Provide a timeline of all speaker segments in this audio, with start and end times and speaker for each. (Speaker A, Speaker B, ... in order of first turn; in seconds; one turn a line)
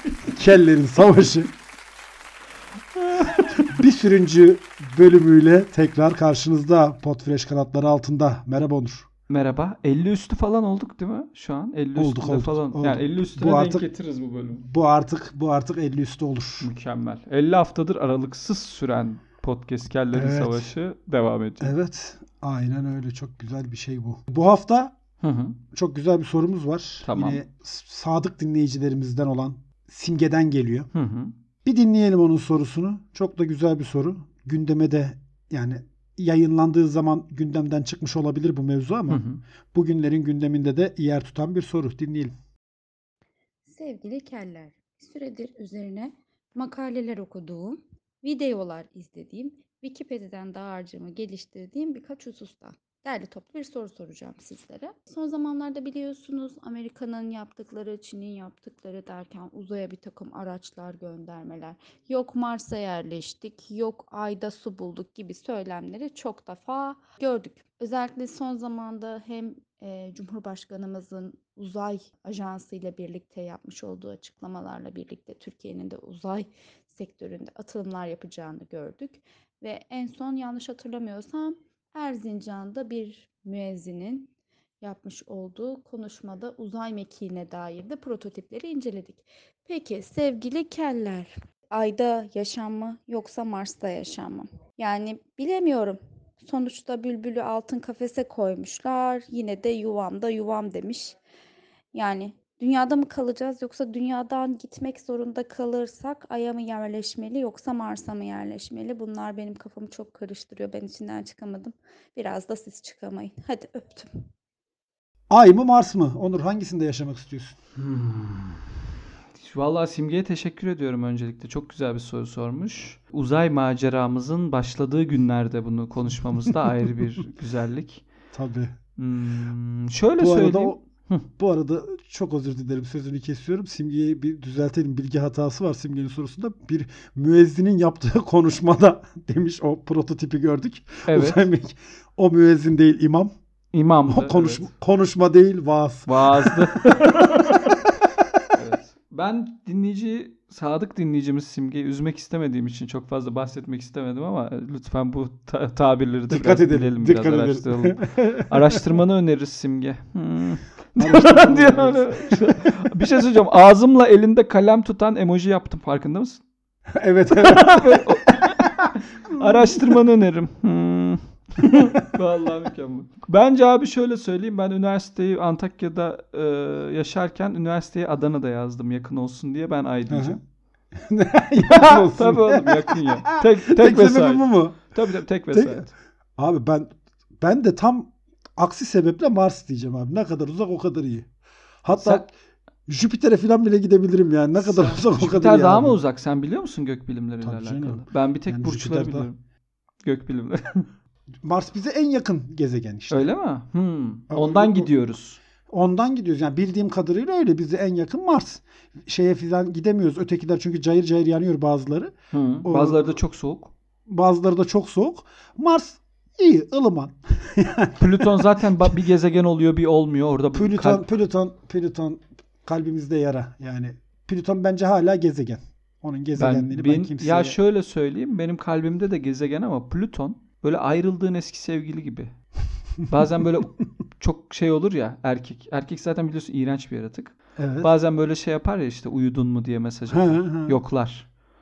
Speaker A: 0.3-1.5
Speaker B: 3.0-3.8
Speaker A: 3.7-9.1
Speaker B: 9.3-14.7
Speaker A: 11.9-13.9
Speaker A: 14.6-16.7
Speaker B: 16.6-21.8
Speaker A: 20.1-20.7
Speaker A: 21.6-24.9
Speaker B: 25.2-25.6
Speaker A: 25.7-30.9
Speaker B: 27.0-27.4
Speaker B: 30.9-31.4
Speaker A: 31.6-42.3
Speaker B: 39.1-39.4
Speaker C: 43.7-84.3
Speaker C: 84.8-101.2
Speaker C: 101.9-114.1
Speaker A: 115.3-117.6
Speaker B: 117.8-118.7
Speaker B: 119.4-128.1
Speaker A: 128.3-128.7
Speaker B: 129.0-131.3
Speaker A: 130.2-130.8
Speaker A: 131.4-143.3
Speaker B: 141.1-141.4
Speaker B: 143.7-144.7
Speaker A: 144.1-146.7
Speaker B: 146.1-147.8
Speaker B: 148.5-166.4
Speaker A: 156.3-158.8
Speaker A: 161.0-162.5
Speaker A: 166.9-170.0
Speaker B: 167.3-180.4
Speaker A: 180.1-180.4
Speaker A: 181.0-184.9
Speaker B: 181.6-185.9
Speaker A: 185.5-191.3
Speaker A: 191.8-192.3
Speaker B: 191.9-192.3
Speaker A: 192.9-196.0
Speaker B: 194.6-199.4
Speaker A: 197.4-199.3
Speaker B: 200.0-200.9
Speaker A: 201.4-203.3
Speaker B: 203.1-205.4
Speaker A: 204.3-204.9
Speaker A: 205.7-212.1
Speaker B: 212.3-213.7
Speaker A: 212.6-213.2
Speaker A: 214.1-218.7
Speaker B: 218.0-221.1
Speaker A: 220.5-227.6
Speaker B: 226.4-232.3
Speaker B: 233.1-241.3
Speaker A: 237.6-237.9
Speaker A: 240.1-240.8